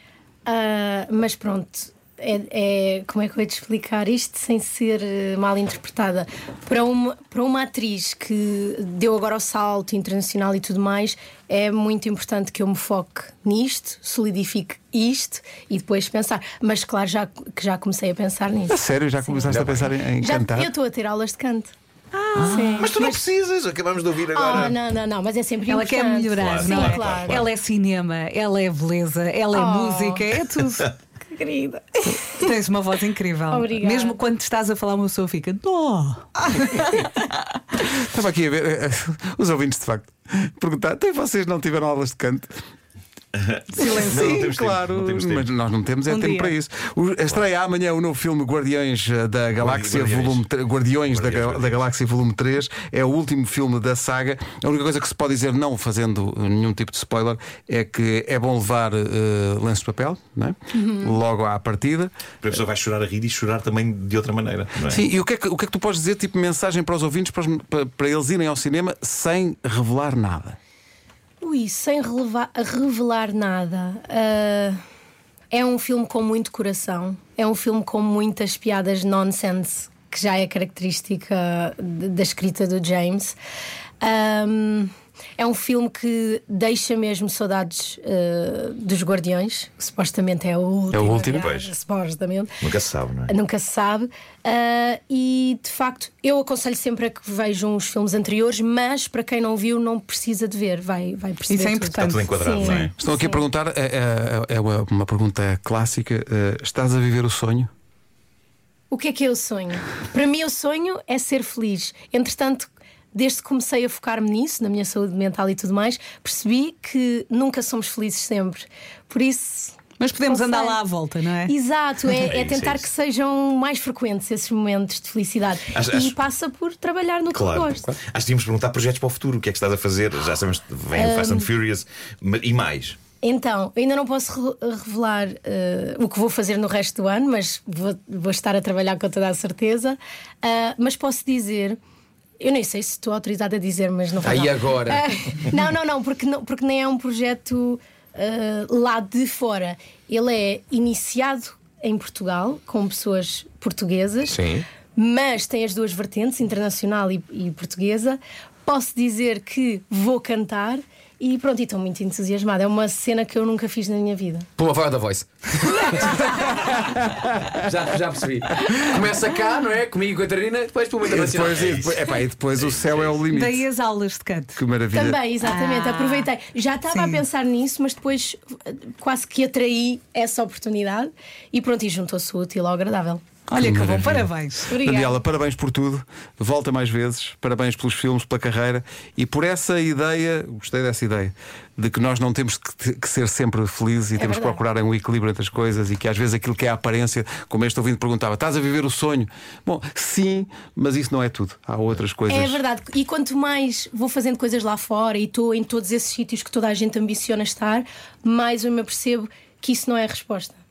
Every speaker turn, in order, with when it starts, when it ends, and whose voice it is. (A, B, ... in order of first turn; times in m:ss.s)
0:00.4-0:19.5 A
0:18.7-0:20.7 B
0:19.5-0:19.9 C
0:20.2-0:21.7 A
0:22.1-0:22.9 D
0:22.4-0:24.8 E
0:22.4-0:23.2 A
0:24.3-0:27.4 A
0:25.7-0:30.9 D
0:26.4-0:27.5 E
0:29.5-0:30.3 A
0:31.2-0:32.5 A
0:32.3-0:37.1 D
0:33.5-0:34.2 A
0:37.8-0:42.5 B
0:43.3-0:45.5 E
0:43.8-0:44.5 D
0:43.9-1:02.1 B
0:46.1-0:46.5 D
0:49.6-0:50.5 E
0:51.1-0:51.8 E
1:00.7-1:01.1 A
1:02.4-1:05.0 E
1:04.9-1:10.6 B
1:11.4-1:14.8 A
1:15.5-1:23.4 A
1:24.0-1:32.6 A
1:30.9-1:31.5 B
1:31.4-1:31.7 E
1:32.6-1:33.3 E
1:33.3-1:43.4 A
1:41.5-1:42.3 D
1:42.0-1:42.9 E
1:42.6-1:47.7 B
1:48.9-2:00.8 A
2:00.0-2:01.5 D
2:01.4-2:07.9 A
2:02.1-2:02.9 E
2:05.7-2:06.2 E
2:07.3-2:13.0 E
2:10.9-2:11.5 A
2:13.2-2:21.8 A
2:22.4-2:44.5 A
2:24.2-2:25.0 C
2:34.3-2:34.6 C
2:44.6-2:46.2 C
2:47.0-2:47.4 B
2:47.5-2:51.7 C
2:51.1-2:53.6 B
2:51.4-2:53.2 E
2:53.3-2:54.6 D
2:54.5-2:55.2 B
2:54.9-3:03.2 A
2:55.4-2:56.3 D
2:56.9-2:57.2 D
3:03.5-3:04.8 D
3:03.5-3:22.6 B
3:04.7-3:05.2 A
3:14.1-3:14.6 A
3:22.3-3:30.6 A